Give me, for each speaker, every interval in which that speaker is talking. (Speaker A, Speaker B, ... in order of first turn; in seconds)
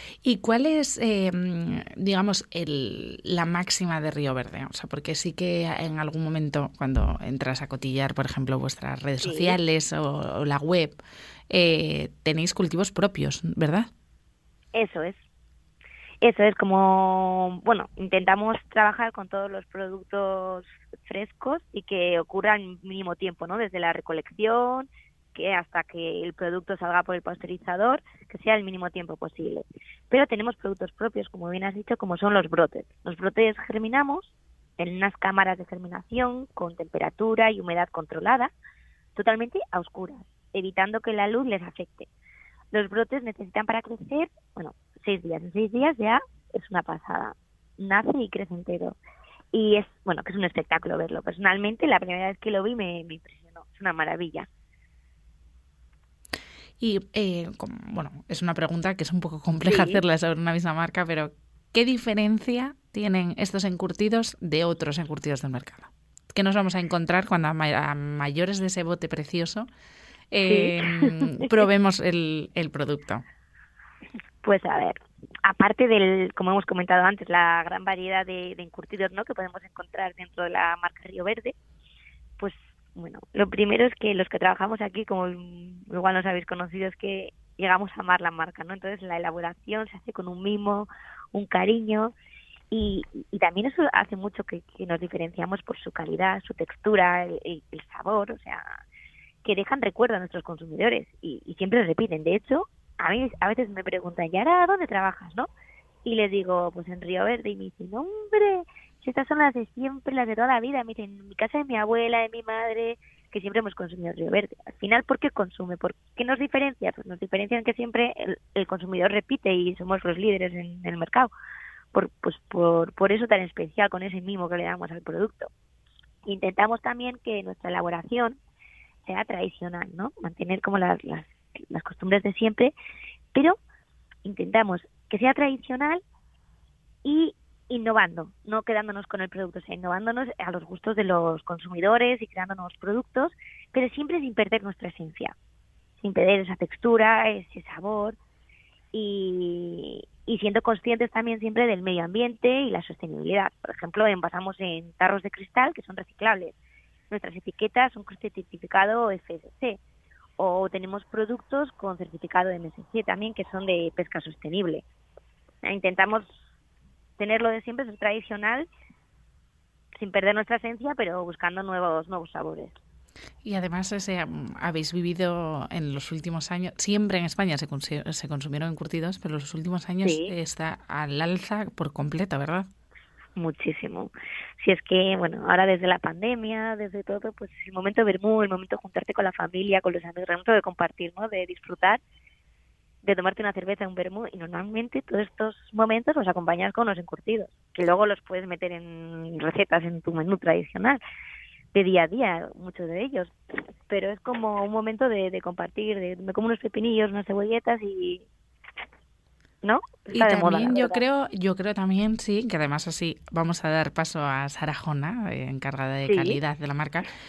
Speaker A: 0.2-11.0, 11.5-13.9, 56.8-69.7, 70.3-73.2, 173.4-182.7, 210.1-217.1
Speaker B: 9.2-9.6, 14.7-15.2, 16.2-38.5, 39.1-42.1, 42.7-49.0, 49.5-54.5, 59.7-60.0, 70.4-71.5, 74.4-81.5, 82.4-92.2, 92.7-98.6, 99.4-105.5, 106.0-121.3, 121.9-125.5, 126.2-128.4, 129.0-132.7, 134.2-136.0, 137.0-145.3, 146.0-148.2, 148.9-156.6, 157.1-159.8, 160.4-164.8, 165.6-166.4, 167.2-168.7, 169.9-172.8, 180.0-180.3, 183.4-192.0, 193.0-201.0, 201.7-203.3, 203.9-208.3, 209.6-211.0, 216.1-216.4